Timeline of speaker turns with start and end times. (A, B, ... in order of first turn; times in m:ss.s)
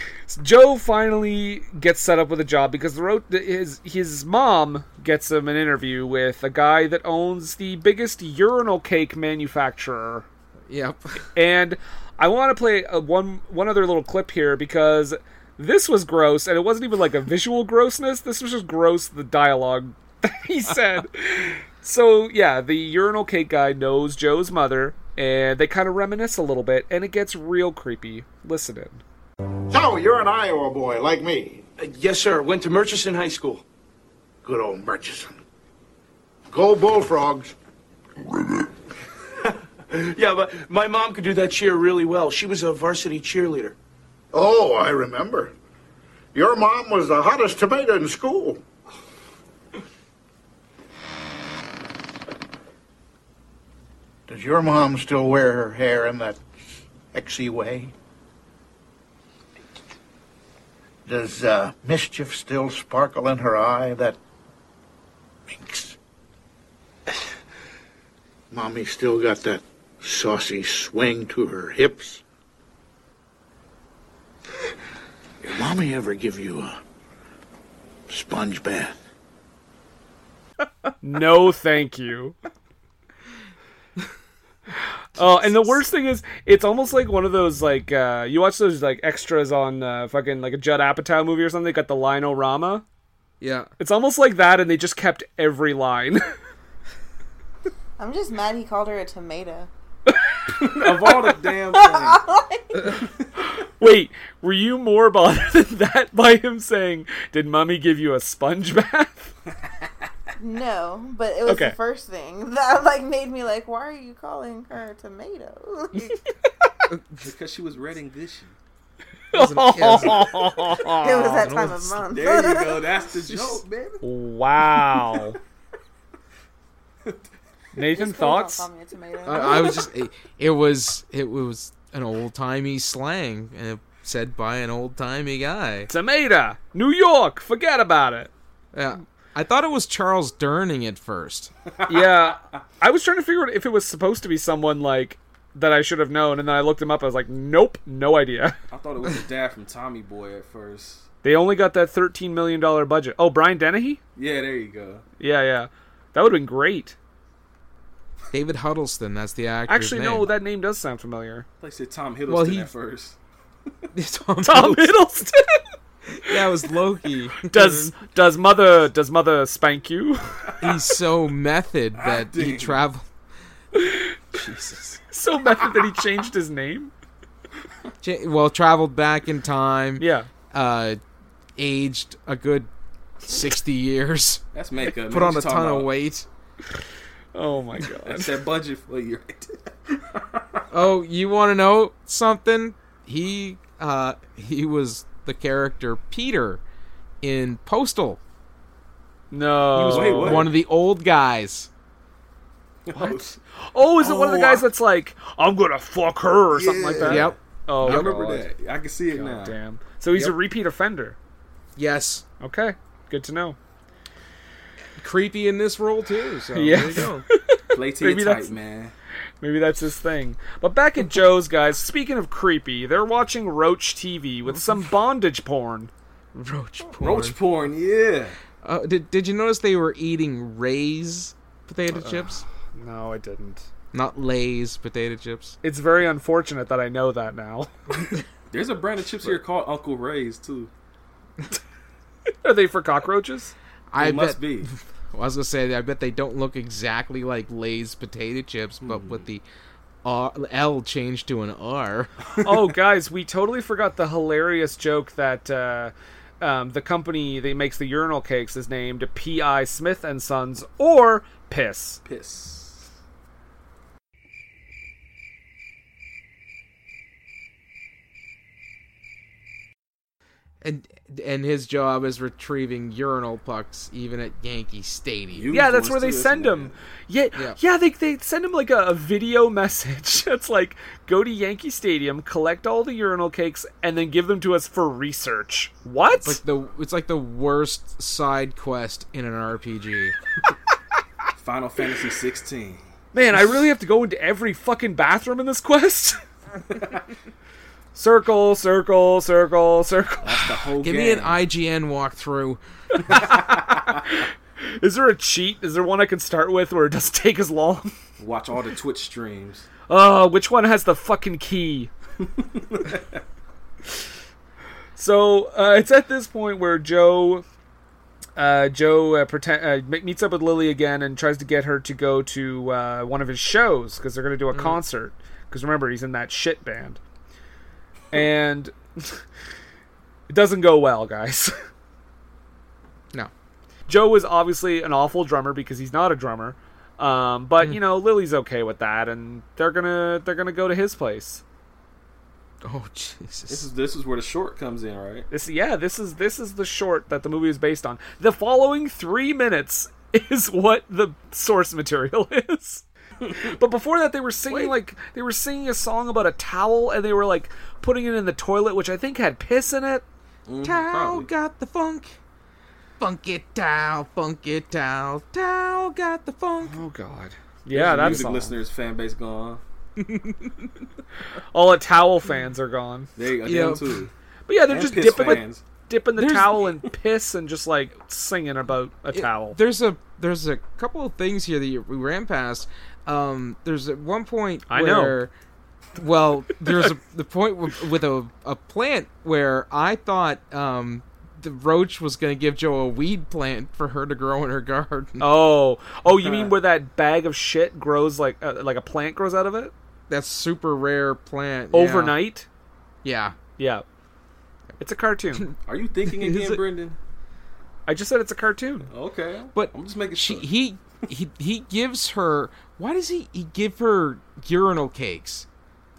0:00.3-0:10.2 A
0:10.7-0:11.2 B
0:11.4-0:29.0 A
0:29.7-0:31.7 C
0:31.8-0:33.6 D
0:34.4-0:35.4 C
0:36.5-0:37.5 C
0:39.9-0:43.7 D
0:44.3-0:45.5 C
0:46.3-0:48.6 C
0:54.3-0:56.4 C
0:56.9-0:57.9 C
1:01.0-1:04.2 C
1:05.5-1:06.0 C
1:08.5-1:12.2 C
1:15.4-1:16.8 C
1:18.1-1:19.0 C
1:21.0-1:22.4 A
1:25.2-1:32.8 A
1:25.2-1:25.8 B
1:33.4-1:33.7 B
1:33.8-1:36.2 A
1:38.0-1:39.7 E
1:40.6-1:42.2 F
1:41.7-1:43.0 E
1:43.8-1:49.3 A
1:50.4-1:56.2 E
1:51.4-1:51.8 A
1:56.9-1:57.2 B
1:57.2-1:58.5 F
1:59.3-2:01.5 A
1:59.3-2:00.4 B
2:01.0-2:03.0 E
2:01.3-2:02.1 B
2:02.1-2:04.0 F
2:03.3-2:03.6 B
2:04.0-2:05.4 A
2:07.8-2:08.7 A
2:07.8-2:09.9 E
2:09.2-2:15.9 B
2:15.9-2:18.3 A
2:18.7-2:21.5 B
2:21.7-2:22.4 F
2:21.9-2:28.6 A
2:28.7-2:31.1 F
2:31.2-2:34.0 A
2:34.2-2:35.0 F
2:35.2-2:36.9 A
2:38.3-2:40.3 B
2:39.7-2:41.4 A
2:41.6-2:43.2 F
2:42.3-2:42.7 B
2:43.9-2:45.0 B
2:44.4-2:45.6 A
2:46.1-2:47.9 B
2:47.5-2:50.5 A
2:50.6-2:53.0 B
2:52.0-2:52.8 F
2:53.8-2:54.1 A
2:54.4-2:55.0 B
2:55.1-2:56.9 A
2:58.0-3:01.0 B
3:00.0-3:00.3 A
3:01.6-3:02.7 B
3:03.2-3:04.4 B
3:04.5-3:05.9 F
3:05.1-3:06.2 B
3:07.3-3:08.4 A
3:08.0-3:10.6 F
3:10.7-3:16.6 B
3:17.2-3:18.2 B
3:19.3-3:20.5 A
3:19.8-3:21.7 B
3:19.8-3:20.6 F
3:22.8-3:23.4 F
3:23.7-3:28.4 A
3:24.1-3:24.5 F
3:24.2-3:24.5 B
3:26.5-3:29.6 F
3:27.0-3:28.2 B
3:29.1-3:31.2 A
3:31.8-3:32.2 B
3:32.4-3:33.6 A
3:35.0-3:37.2 B
3:36.5-3:38.5 A
3:37.7-3:38.9 F
3:39.4-3:45.9 A
3:46.3-3:47.4 B
3:47.0-3:48.4 F
3:48.6-3:52.4 B
3:51.9-3:53.7 A
3:53.9-3:55.6 B
3:55.6-3:57.7 A
3:58.5-4:00.7 F
4:02.4-4:03.5 A
4:03.9-4:09.4 B
4:04.0-4:04.7 F
4:08.8-4:09.2 F
4:10.0-4:12.1 B
4:12.4-4:22.0 A
4:22.0-4:22.9 F
4:30.6-4:35.5 B
4:35.3-4:36.8 F
4:35.5-4:46.4 A
4:46.2-4:50.1 B
4:51.4-4:52.8 F
4:53.1-4:56.2 A
4:57.9-5:00.5 A
5:00.2-5:01.4 F
5:00.8-5:02.6 B
5:03.0-5:04.2 A
5:03.2-5:03.8 F
5:04.8-5:07.9 A
5:08.2-5:09.7 F
5:09.9-5:11.9 A
5:12.2-5:13.2 F
5:15.0-5:17.4 A
5:18.4-5:27.0 A
5:28.1-5:29.2 A
5:30.3-5:31.6 A
5:33.9-5:41.4 A
5:42.6-5:43.6 B
5:43.5-5:45.3 F
5:45.3-5:52.8 A
5:53.2-5:53.6 F
5:53.4-6:00.0 A
6:00.5-6:01.3 F
6:00.6-6:02.1 B
6:03.0-6:06.8 B
6:06.6-6:08.5 A
6:07.7-6:09.6 F
6:07.9-6:08.3 B
6:10.0-6:10.6 B
6:11.5-6:13.1 A
6:13.2-6:14.1 F
6:13.4-6:14.0 B
6:14.5-6:19.6 A
6:14.7-6:15.6 F
6:16.2-6:16.8 B
6:19.1-6:25.3 B
6:24.7-6:25.2 A
6:26.0-6:35.3 B
6:35.2-6:39.7 A
6:36.2-6:36.5 F
6:40.1-6:42.2 B
6:41.7-6:42.4 A
6:43.0-6:43.4 B
6:43.6-6:43.8 A
6:44.8-6:45.4 A
6:45.6-6:47.0 F
6:46.0-6:46.6 B
6:47.8-6:48.9 A
6:48.9-6:50.5 F
6:49.5-6:55.4 B